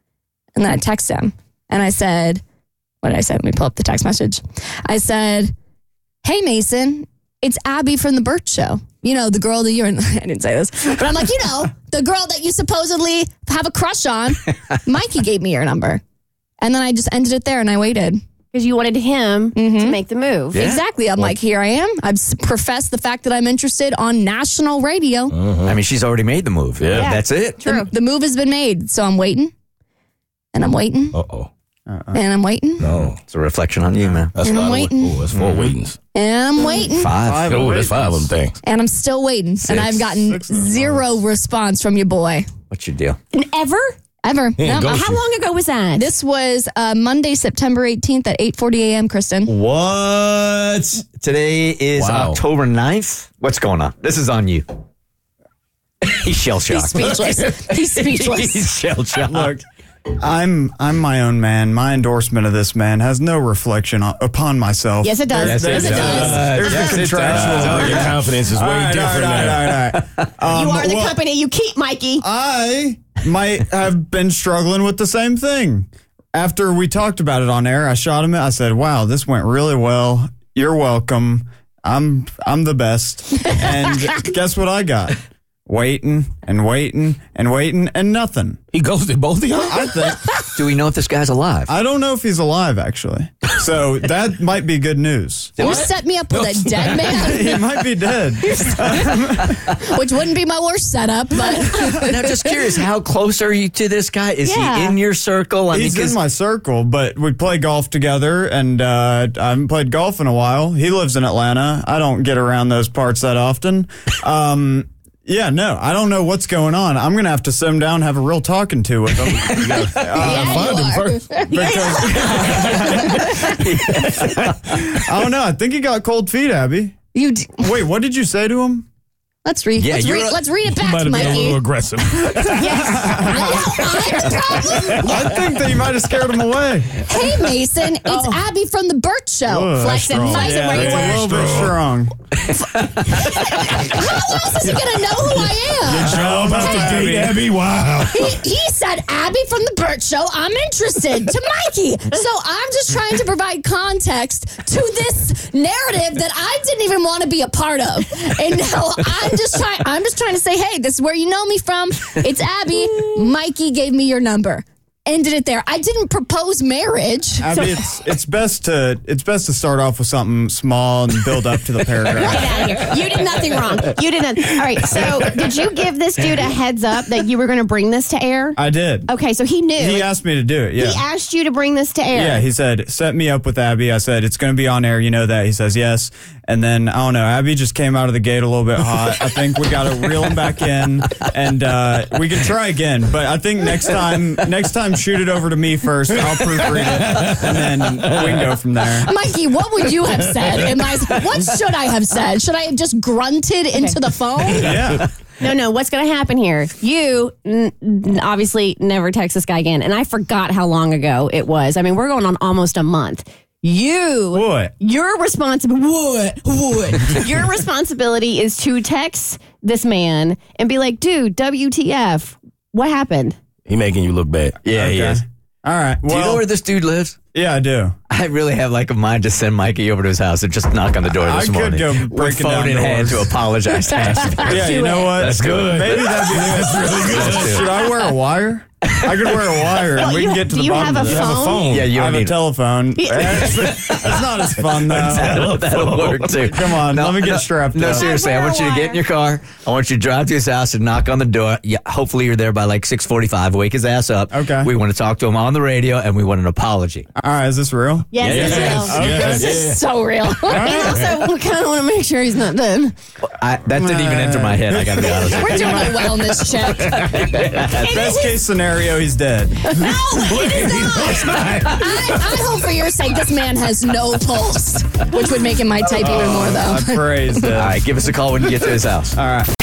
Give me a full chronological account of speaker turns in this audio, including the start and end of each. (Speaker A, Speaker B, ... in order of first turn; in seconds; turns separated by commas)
Speaker A: 0.5-2.4, Speaker A: 3.0-5.5, Speaker A: 6.2-16.0, Speaker A: 16.6-18.2, Speaker B: 18.5-20.6, Speaker A: 19.5-20.0, Speaker C: 20.5-21.3, Speaker A: 20.5-25.3, Speaker D: 25.3-25.8, Speaker C: 25.6-27.6, Speaker D: 26.8-27.1, Speaker B: 26.9-27.9, Speaker A: 27.6-29.5, Speaker A: 30.5-31.2, Speaker D: 31.1-31.5, Speaker E: 31.9-32.2, Speaker A: 32.1-32.9, Speaker D: 32.8-33.2, Speaker C: 33.2-34.7, Speaker D: 34.3-36.0, Speaker A: 34.4-35.2, Speaker C: 35.3-35.7, Speaker A: 36.1-37.1, Speaker B: 36.6-36.9, Speaker C: 36.9-37.5, Speaker E: 37.2-38.3, Speaker D: 37.4-38.5, Speaker A: 38.6-42.5, Speaker C: 39.7-40.0, Speaker E: 40.0-41.2, Speaker C: 42.7-43.2, Speaker B: 43.3-43.9, Speaker A: 44.2-45.0, Speaker D: 44.6-45.2, Speaker B: 44.7-46.1, Speaker A: 46.0-49.5, Speaker C: 49.5-54.6, Speaker D: 52.0-52.4, Speaker C: 56.0-59.6, Speaker A: 56.6-58.7, Speaker E: 59.3-59.6, Speaker E: 60.2-71.2, Speaker B: 65.0-66.6, Speaker C: 65.3-68.3, Speaker A: 65.8-66.1, Speaker D: 66.1-69.8, Speaker C: 69.7-70.2, Speaker B: 70.5-72.2, Speaker E: 72.2-88.6, Speaker D: 88.7-90.5, Speaker E: 89.7-90.2, Speaker C: 90.5-91.7, Speaker E: 91.7-95.7, Speaker C: 95.6-95.9, Speaker A: 95.6-97.6, Speaker D: 95.8-97.3, Speaker E: 97.1-99.6, Speaker A: 98.4-102.5, Speaker E: 101.7-102.0, Speaker C: 101.9-106.2, Speaker B: 104.4-105.0, Speaker E: 105.7-120.9, Speaker C: 119.3-120.3, Speaker A: 120.1-123.6, Speaker D: 120.1-121.3, Speaker E: 121.5-127.0, Speaker B: 121.5-123.4, Speaker C: 122.4-125.0, Speaker A: 127.1-127.7, Speaker E: 127.6-128.8, Speaker A: 129.4-131.6, Speaker C: 129.8-130.4, Speaker D: 130.6-132.9, Speaker A: 132.2-135.4, Speaker B: 132.5-134.1, Speaker E: 132.8-133.5, Speaker E: 135.0-137.0, Speaker A: 137.1-141.0, Speaker B: 138.1-138.4, Speaker E: 139.5-142.1, Speaker B: 139.8-141.3, Speaker D: 140.7-141.7, Speaker A: 142.8-147.1, Speaker D: 145.8-148.4, Speaker E: 145.9-147.4, Speaker A: 147.9-167.6, Speaker E: 167.4-172.9, Speaker B: 172.2-180.1, Speaker E: 178.6-179.1, Speaker E: 179.8-181.0, Speaker B: 180.8-182.5, Speaker E: 182.1-199.1, Speaker A: 199.0-205.0, Speaker E: 204.5-205.1, Speaker B: 205.4-223.3, Speaker E: 214.3-214.7, Speaker D: 223.7-225.1, Speaker C: 224.6-225.2, Speaker E: 224.7-226.4, Speaker C: 226.1-227.2, Speaker E: 227.3-227.9, Speaker C: 228.1-237.7, Speaker E: 231.1-233.3, Speaker B: 234.4-235.1, Speaker E: 234.4-248.1, Speaker D: 235.3-237.7, Speaker B: 239.9-241.8, Speaker D: 241.1-241.9, Speaker C: 241.7-242.4, Speaker B: 243.0-243.7, Speaker C: 243.4-257.1, Speaker D: 244.9-246.2, Speaker B: 247.8-249.0, Speaker E: 254.3-254.7, Speaker E: 257.1-259.6, Speaker B: 258.1-259.3, Speaker C: 258.2-259.8, Speaker D: 258.3-259.4, Speaker A: 258.4-260.8, Speaker B: 260.2-262.9, Speaker E: 260.5-261.0, Speaker C: 263.2-266.1, Speaker E: 263.7-266.5, Speaker A: 265.0-268.1, Speaker B: 265.6-266.9, Speaker C: 267.2-267.9, Speaker E: 267.6-269.9, Speaker A: 269.7-277.5, Speaker D: 270.2-271.6, Speaker B: 270.2-272.6, Speaker E: 275.8-277.8, Speaker C: 277.5-279.2, Speaker E: 279.1-279.5